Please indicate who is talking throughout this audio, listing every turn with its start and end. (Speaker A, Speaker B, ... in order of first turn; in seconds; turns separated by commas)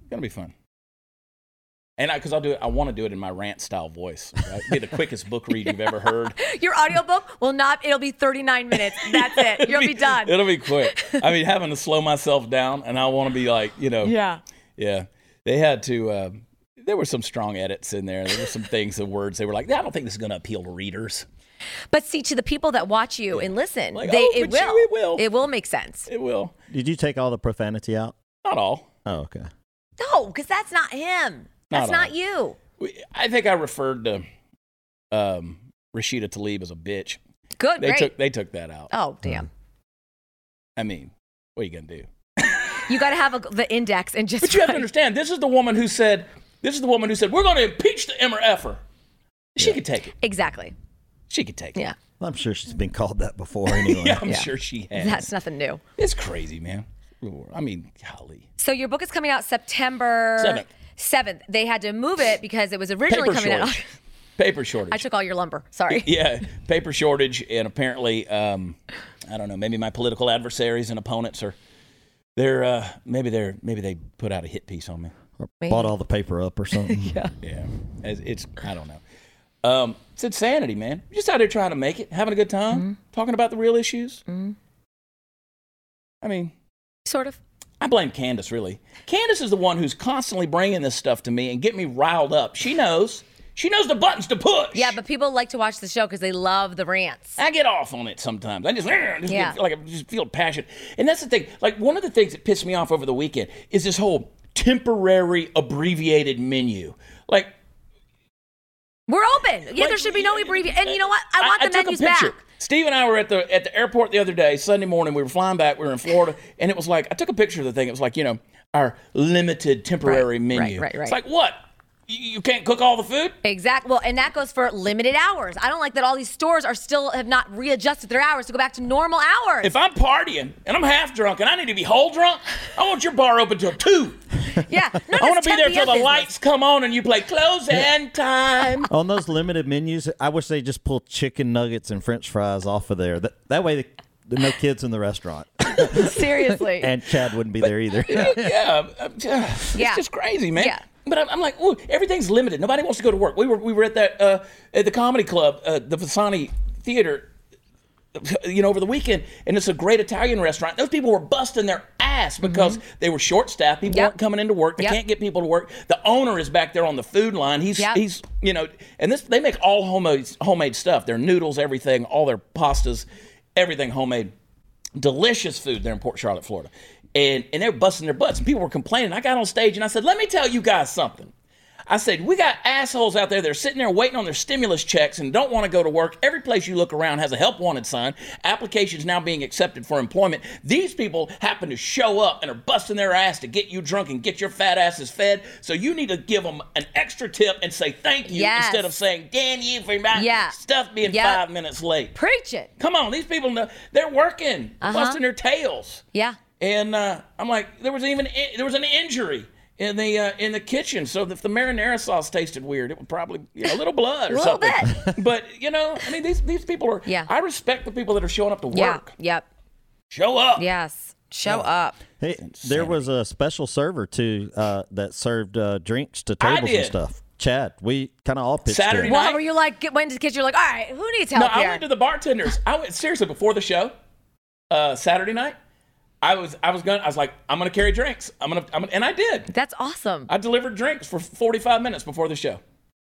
Speaker A: 0.1-0.5, Speaker A: 2.0-6.4, Speaker B: 5.7-11.2, Speaker A: 8.9-14.1, Speaker B: 14.0-14.4, Speaker A: 14.8-21.2, Speaker B: 21.9-26.1, Speaker A: 23.3-25.2, Speaker A: 26.1-26.5, Speaker C: 26.7-28.1, Speaker A: 28.4-28.9, Speaker C: 29.1-29.5, Speaker B: 30.0-32.6, Speaker A: 31.7-32.1, Speaker A: 32.8-34.2, Speaker A: 35.1-37.2, Speaker B: 37.6-38.1, Speaker A: 37.8-38.9, Speaker B: 38.9-39.5, Speaker A: 40.8-42.9, Speaker B: 42.9-44.8, Speaker A: 44.4-48.8, Speaker A: 49.6-50.1, Speaker B: 50.2-50.7, Speaker A: 51.3-51.8, Speaker C: 52.2-54.3, Speaker A: 53.7-55.3, Speaker B: 54.3-55.8, Speaker A: 56.0-58.5, Speaker B: 58.6-63.9, Speaker A: 60.4-60.7, Speaker A: 63.1-63.8, Speaker A: 64.4-65.0, Speaker B: 64.9-66.1, Speaker A: 65.9-71.6, Speaker A: 72.4-75.1, Speaker C: 75.4-77.2, Speaker B: 75.6-75.9, Speaker B: 76.8-77.3, Speaker A: 77.4-79.0, Speaker A: 79.6-84.2, Speaker B: 84.3-84.5, Speaker A: 86.2-86.5, Speaker B: 87.0-87.4, Speaker A: 87.8-95.0, Speaker B: 94.7-97.4, Speaker A: 97.4-107.5, Speaker B: 99.3-99.6, Speaker B: 109.1-112.4, Speaker A: 109.7-123.4, Speaker B: 120.0-121.2, Speaker B: 123.4-129.7, Speaker A: 129.6-134.2, Speaker B: 134.6-136.3, Speaker A: 135.1-138.9, Speaker C: 138.9-148.5, Speaker B: 145.8-146.9, Speaker A: 148.1-157.3, Speaker B: 149.8-150.0, Speaker B: 150.6-150.8, Speaker A: 158.2-174.3, Speaker B: 162.4-162.8, Speaker A: 175.0-181.3, Speaker A: 181.9-202.2, Speaker B: 198.2-198.9, Speaker B: 200.1-201.4, Speaker B: 202.2-202.7, Speaker A: 202.8-206.0, Speaker B: 204.8-205.2, Speaker B: 206.1-206.4, Speaker A: 206.6-219.1, Speaker B: 214.3-215.0, Speaker B: 218.7-219.5, Speaker A: 220.1-220.7, Speaker B: 220.6-222.0, Speaker C: 222.2-229.2, Speaker A: 222.4-223.0, Speaker A: 226.4-227.0, Speaker A: 228.7-229.4, Speaker B: 229.1-231.8, Speaker A: 231.3-233.9, Speaker A: 234.7-235.6, Speaker A: 236.2-239.5, Speaker B: 239.5-240.3, Speaker A: 240.3-242.6